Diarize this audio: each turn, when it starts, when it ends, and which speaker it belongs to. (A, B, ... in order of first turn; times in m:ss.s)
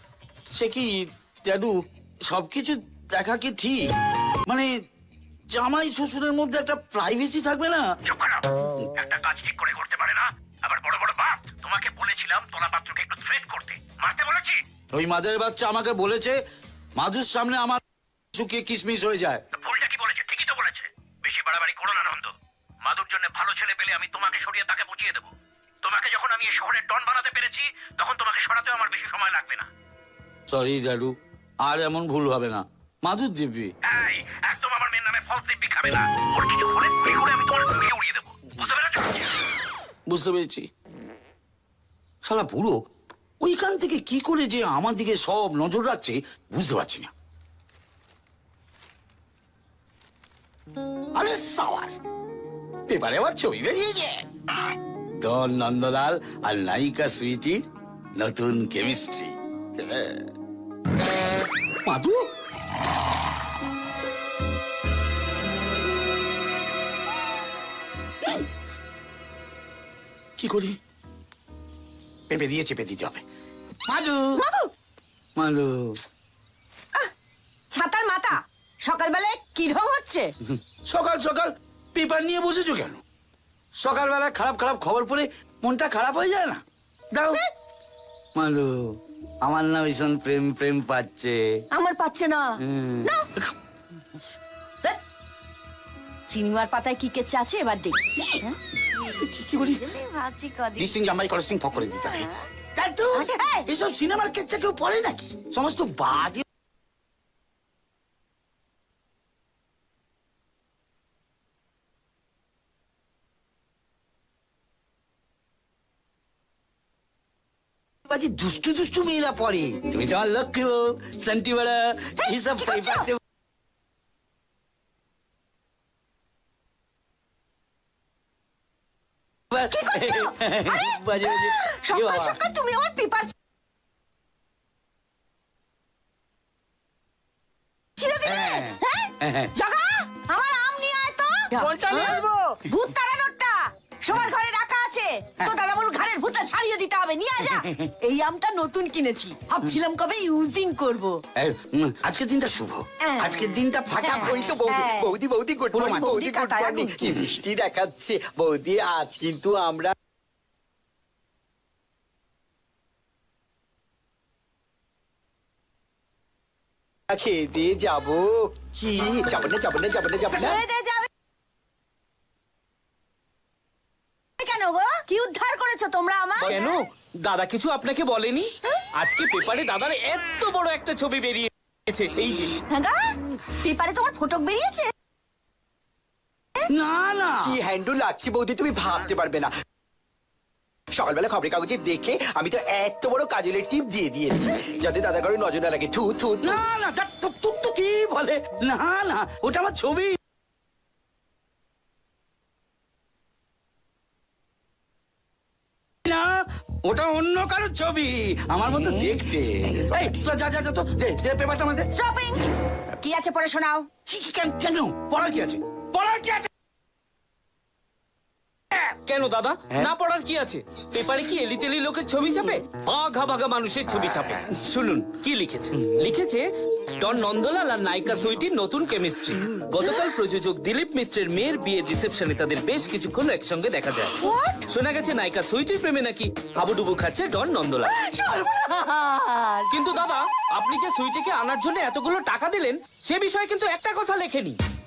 0:00.5-0:03.9 A
0:04.4-0:04.7 A
0:05.5-0:07.9 A
0:08.1-0:14.6 B
0:14.9-0:16.4 A
0:17.0-0:17.8 A
0:18.3-0:19.4 A
0:19.5-0:22.3 B
0:22.8-0:25.3 B
0:25.8-0:29.7 B
0:30.5-0:33.7 A
0:33.8-0:39.4 B
0:40.1-0:40.7 A
0:42.2-0:42.8 A
0:43.4-0:47.1 A
0:51.2-0:52.0 A
0:52.9-0:54.4 A
0:55.2-0:57.6 A
0:58.2-1:00.3 A
1:01.8-1:02.3 A
1:10.4-1:10.8 A
1:12.3-1:13.2 A
1:13.9-1:14.4 A
1:14.4-1:14.7 C
1:15.4-1:16.0 A
1:17.7-1:20.3 C
1:20.7-1:23.0 A
1:23.8-1:27.4 A
1:28.4-1:31.4 A
1:31.7-1:33.3 C
1:32.6-1:33.1 A
1:36.3-1:38.0 C
1:38.2-1:39.8 A
1:38.9-1:41.0 C
1:40.8-1:46.4 A
1:42.1-1:42.4 C
1:43.1-1:43.7 C
1:58.1-2:03.2 A
2:02.2-2:03.1 C
2:09.5-2:12.4 A
2:09.7-2:13.3 C
2:18.0-2:31.2 C
2:18.2-2:19.5 A
2:21.6-2:22.5 D
2:27.4-2:27.9 A
2:31.4-2:34.3 A
2:33.0-2:33.4 C
2:34.0-2:35.1 C
2:34.0-2:39.9 E
2:35.7-2:36.1 A
2:35.8-2:37.1 C
2:47.1-2:50.6 E
2:50.3-2:51.1 C
2:54.4-2:56.8 C
2:56.4-3:02.6 D
3:02.7-3:04.9 C
3:06.7-3:07.6 A
3:07.4-3:09.5 E
3:10.9-3:16.6 E
3:16.4-3:20.2 A
3:26.0-3:31.9 A
3:31.9-3:32.5 C
3:33.0-3:33.9 C
3:34.1-3:36.5 A
3:38.8-3:46.5 D
3:47.0-3:58.0 D
3:54.2-3:54.7 C
3:58.0-3:59.8 C
3:59.7-4:04.6 D